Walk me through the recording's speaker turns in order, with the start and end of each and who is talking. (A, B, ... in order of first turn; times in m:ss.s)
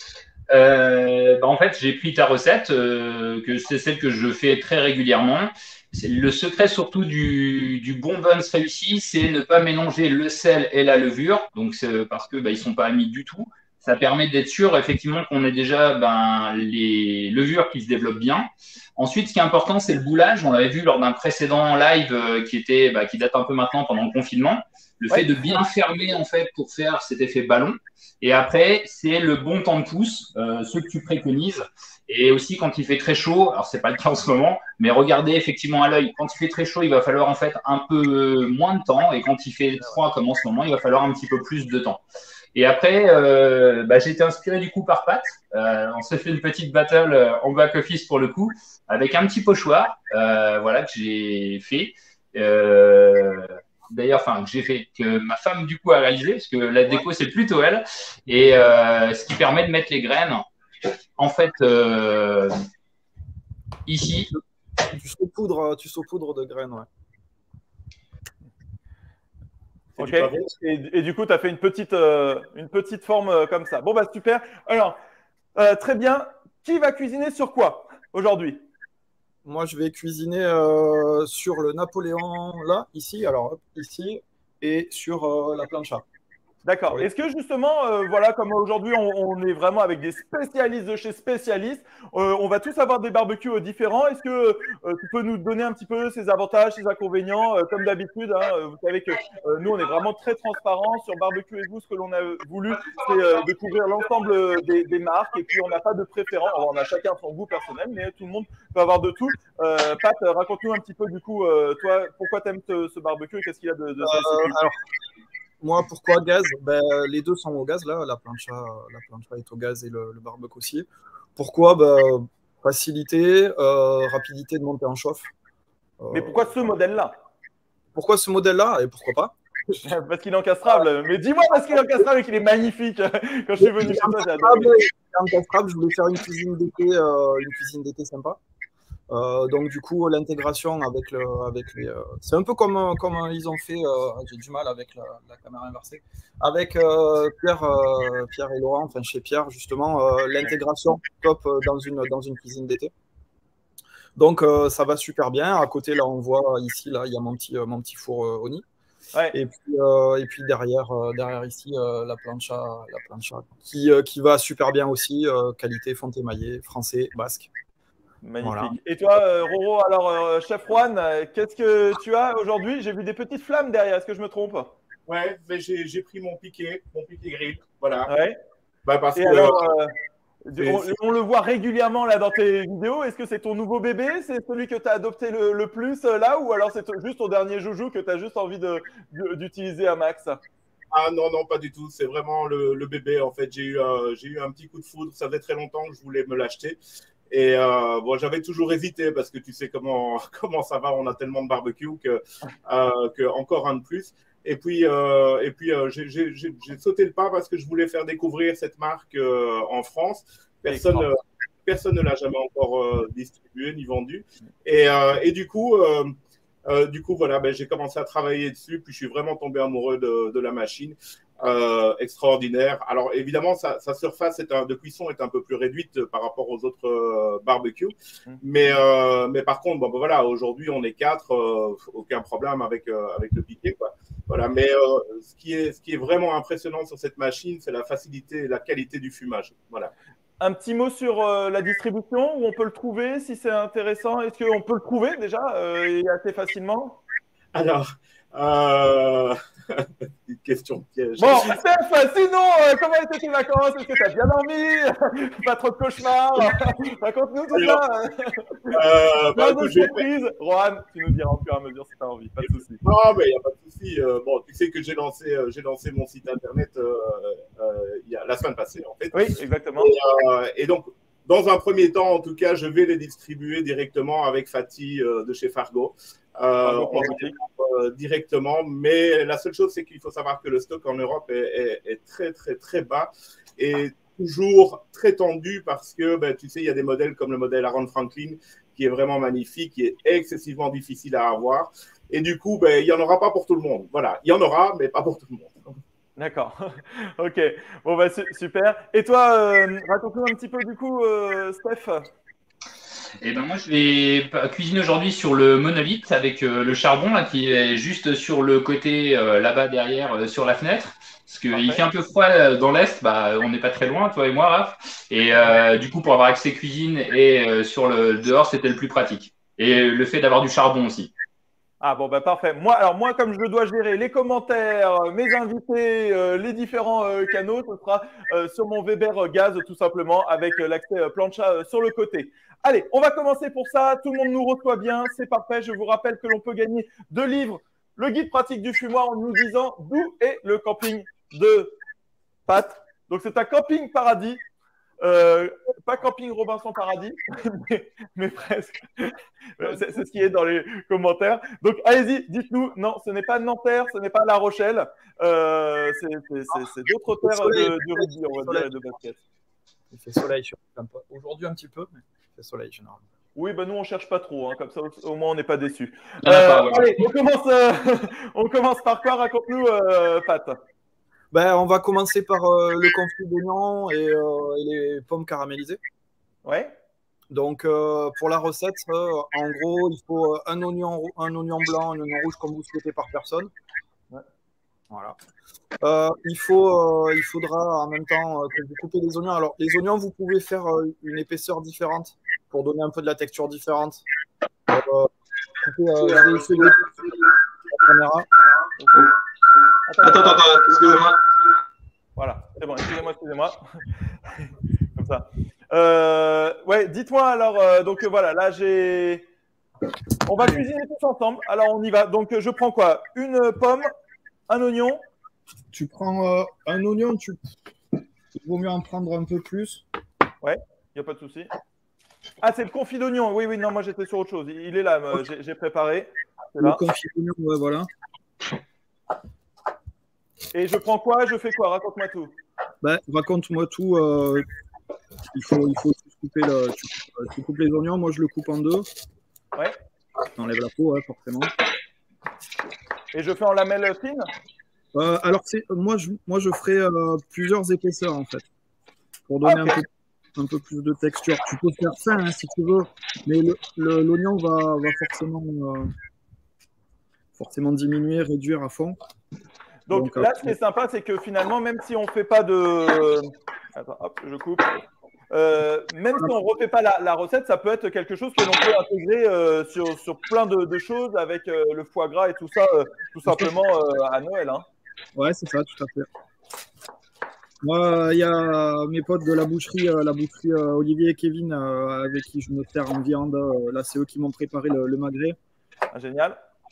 0:00.5-0:42.0 A
0:25.1-0:25.6 B
0:42.5-1:00.4 A
1:01.2-1:02.5 A
1:03.9-1:04.3 A
1:04.3-1:06.9 C
1:10.0-1:10.5 D
1:10.0-1:15.0 B
1:15.5-1:18.6 B
1:19.4-1:26.0 C
1:26.6-1:54.6 B
1:54.0-1:54.8 C
1:55.6-2:05.3 C
2:06.0-2:06.5 C
2:06.1-2:07.1 B
2:07.9-2:09.8 C
2:09.8-2:14.7 B
2:13.6-2:18.4 C
2:19.1-2:32.9 C
2:34.2-2:38.6 C
2:39.3-2:47.5 C
2:48.2-2:54.7 B
2:48.4-2:48.7 C
2:55.1-2:58.1 D
2:58.1-2:58.4 B
2:58.8-2:59.6 D
2:59.2-2:59.9 B
3:00.4-3:10.4 B
3:00.6-3:00.9 D
3:10.9-3:16.8 D
3:17.3-3:36.1 D
3:30.7-3:31.1 B
3:36.6-3:59.9 D
4:00.4-4:07.0 B
4:07.5-4:11.6 D
4:11.2-4:18.8 B
4:17.5-4:17.8 D
4:18.7-4:20.0 D
4:19.3-4:22.8 B
4:22.8-4:29.1 D
4:29.1-4:29.9 B
4:29.8-4:55.7 D
4:36.6-4:37.3 B
4:56.2-5:02.1 B
5:03.2-5:21.1 A
5:11.5-5:11.8 B
5:21.8-5:41.8 B
5:42.5-5:44.4 B
5:45.0-5:59.2 B
5:49.6-5:50.0 C
5:57.2-5:58.7 C
5:59.9-6:03.0 C
6:03.3-6:10.6 B
6:06.2-6:07.0 A
6:11.3-6:15.8 C
6:16.4-6:16.7 B
6:17.3-6:23.5 C
6:24.9-6:25.2 C
6:25.8-6:34.0 C
6:34.7-6:35.1 C
6:35.6-6:37.2 C
6:36.0-6:36.9 E
6:37.7-6:38.3 C
6:38.8-6:39.1 B
6:39.9-6:40.6 B
6:40.0-6:41.2 E
6:42.2-6:43.8 B
6:44.3-6:49.2 B
6:50.2-6:53.9 B
6:54.5-6:55.0 B
6:55.7-6:57.4 C
6:58.3-6:59.8 C
7:00.4-7:01.5 B
7:02.4-7:06.8 B
7:06.6-7:07.9 C
7:10.5-7:12.3 B
7:12.8-7:14.4 C
7:15.3-7:18.9 C
7:20.4-7:21.5 C
7:23.1-7:24.3 B
7:24.9-7:28.4 C
7:29.3-7:35.9 C
7:29.4-7:29.8 B
7:37.4-7:39.0 C
7:39.9-7:44.6 B
7:39.9-7:40.6 C
7:45.3-7:54.6 B
7:53.3-7:53.5 C
7:55.1-7:56.1 C
7:57.6-8:05.4 C
8:05.9-8:06.4 B